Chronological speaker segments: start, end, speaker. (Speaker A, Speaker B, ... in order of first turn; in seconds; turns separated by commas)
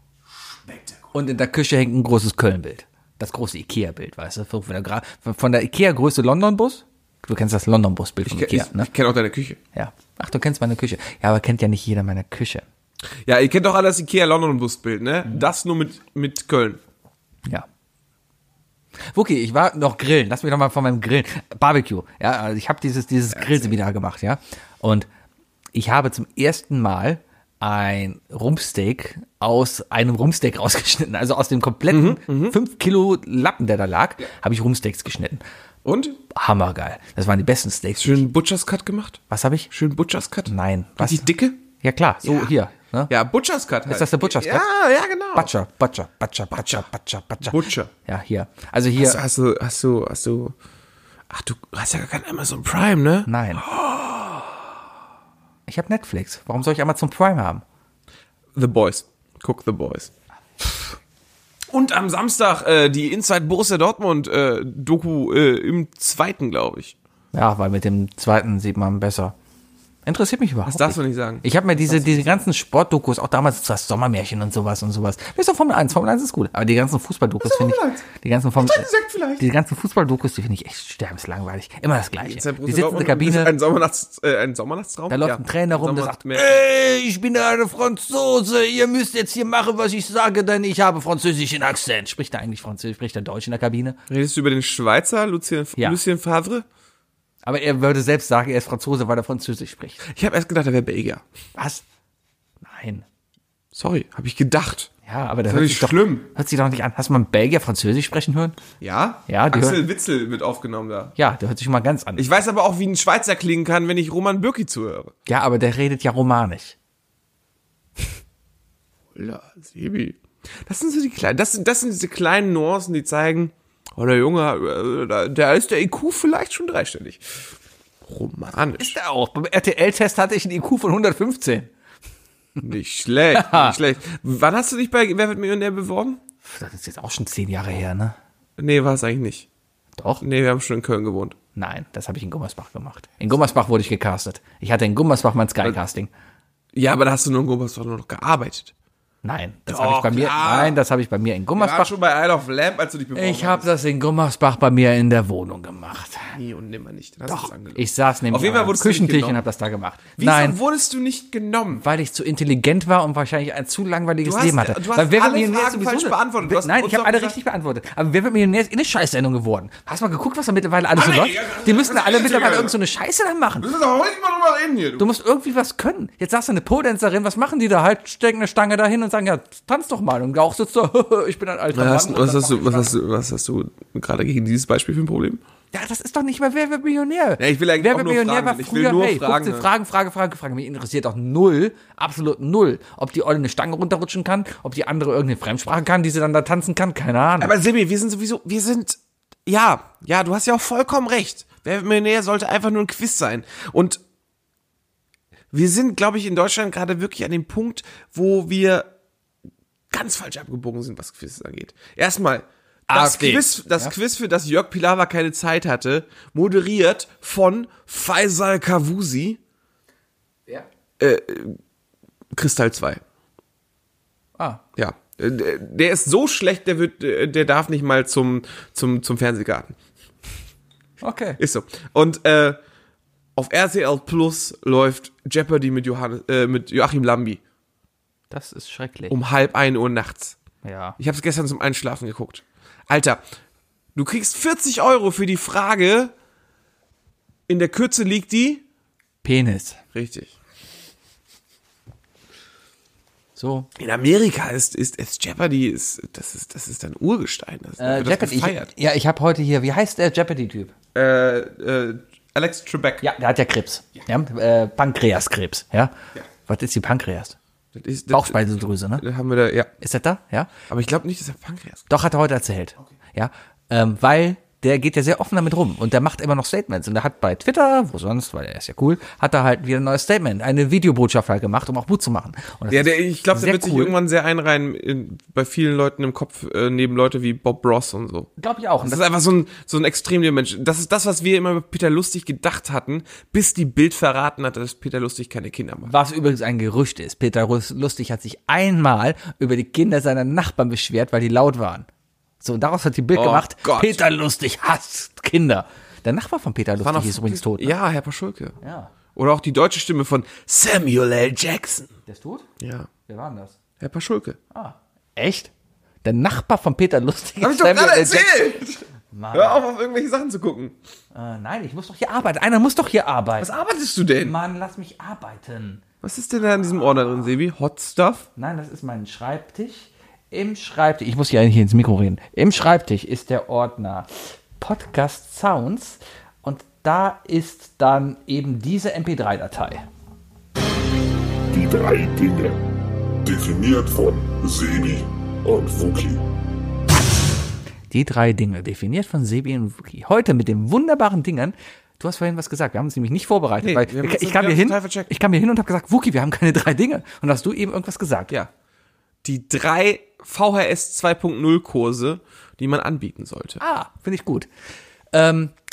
Speaker A: 1.1-8.9, Speaker B: 8.2-9.6, Speaker A: 9.7-12.6, Speaker B: 13.2-16.8, Speaker A: 19.1-25.1, Speaker A: 25.7-35.4, Speaker B: 31.9-32.6, Speaker B: 35.8-36.2, Speaker A: 36.3-38.2, Speaker B: 38.0-41.6, Speaker A: 39.3-39.7, Speaker A: 40.5-41.3, Speaker A: 41.8-43.1, Speaker B: 42.2-42.5, Speaker B: 43.1-45.5, Speaker A: 43.9-44.6, Speaker A: 45.3-49.2, Speaker B: 47.4-47.9, Speaker B: 49.0-50.5, Speaker B: 51.3-54.6, Speaker A: 53.3-53.6, Speaker A: 55.7-57.6, Speaker B: 58.5-60.1, Speaker B: 61.7-67.0, Speaker A: 67.3-69.3, Speaker A: 70.0-78.9, Speaker B: 70.7-72.4, Speaker B: 77.4-78.0, Speaker B: 78.6-79.4, Speaker A: 79.4-83.5, Speaker B: 82.2-86.6, Speaker A: 85.1-94.0, Speaker B: 94.1-96.7, Speaker A: 97.4-100.0, Speaker B: 100.0-101.2, Speaker A: 101.5-101.8, Speaker A: 102.6-103.0, Speaker B: 103.7-104.9, Speaker A: 105.0-108.6, Speaker B: 105.5-106.3, Speaker B: 108.8-111.1, Speaker A: 109.3-109.8, Speaker A: 111.2-112.3, Speaker B: 112.2-115.1, Speaker A: 115.3-116.8, Speaker B: 119.1-127.5, Speaker B: 128.0-129.0, Speaker A: 128.8-131.7, Speaker B: 132.6-136.2, Speaker A: 133.3-133.8, Speaker A: 136.4-138.2, Speaker B: 138.6-139.5, Speaker A: 140.0-140.2, Speaker B: 140.2-141.4, Speaker A: 141.6-146.1, Speaker B: 146.7-148.7, Speaker A: 149.2-151.9, Speaker B: 149.7-150.8, Speaker B: 151.6-153.7, Speaker A: 153.1-156.3, Speaker B: 156.3-159.4, Speaker A: 157.3-160.6, Speaker B: 160.2-161.8, Speaker A: 161.8-173.7, Speaker B: 164.2-167.4, Speaker B: 170.9-172.8, Speaker B: 173.6-175.1, Speaker A: 175.0-182.9, Speaker B: 181.7-185.4, Speaker A: 185.7-197.5, Speaker B: 187.4-189.7, Speaker B: 197.4-204.0, Speaker B: 205.5-208.9, Speaker B: 209.9-219.4, Speaker A: 212.9-213.9, Speaker B: 221.0-221.6, Speaker B: 222.3-223.0, Speaker B: 224.8-229.7, Speaker A: 231.0-231.4, Speaker B: 231.4-232.6, Speaker B: 233.3-237.4, Speaker A: 238.3-239.1, Speaker B: 239.1-240.4, Speaker A: 240.6-241.0, Speaker B: 241.0-243.2, Speaker B: 243.9-246.1, Speaker B: 247.5-248.6, Speaker A: 249.2-249.8, Speaker B: 249.9-250.3, Speaker A: 253.3-253.7, Speaker B: 253.8-258.7, Speaker A: 257.8-260.7, Speaker B: 260.9-263.1, Speaker A: 263.0-265.9, Speaker A: 266.4-267.4, Speaker B: 267.7-268.4, Speaker A: 268.1-269.0, Speaker B: 269.0-269.7, Speaker A: 269.8-270.5, Speaker B: 270.7-271.9, Speaker A: 271.9-283.9, Speaker B: 282.7-295.9, Speaker A: 288.4-289.0, Speaker A: 295.9-301.9, Speaker A: 302.4-307.7, Speaker B: 303.1-304.0, Speaker B: 306.8-308.6, Speaker A: 308.6-308.9, Speaker B: 309.1-311.9, Speaker A: 312.1-312.5, Speaker B: 312.6-312.9, Speaker A: 313.1-313.6, Speaker B: 313.8-314.4, Speaker A: 314.5-315.5, Speaker A: 316.0-318.5, Speaker B: 317.4-320.7, Speaker A: 319.1-319.6, Speaker A: 321.1-323.5, Speaker B: 323.4-324.4, Speaker A: 324.2-325.8, Speaker B: 326.0-328.2, Speaker A: 328.4-339.8, Speaker C: 341.5-342.6, Speaker C: 343.2-346.2, Speaker A: 347.9-358.3, Speaker B: 353.6-355.1, Speaker B: 359.2-363.6, Speaker A: 363.6-364.5, Speaker A: 365.1-365.5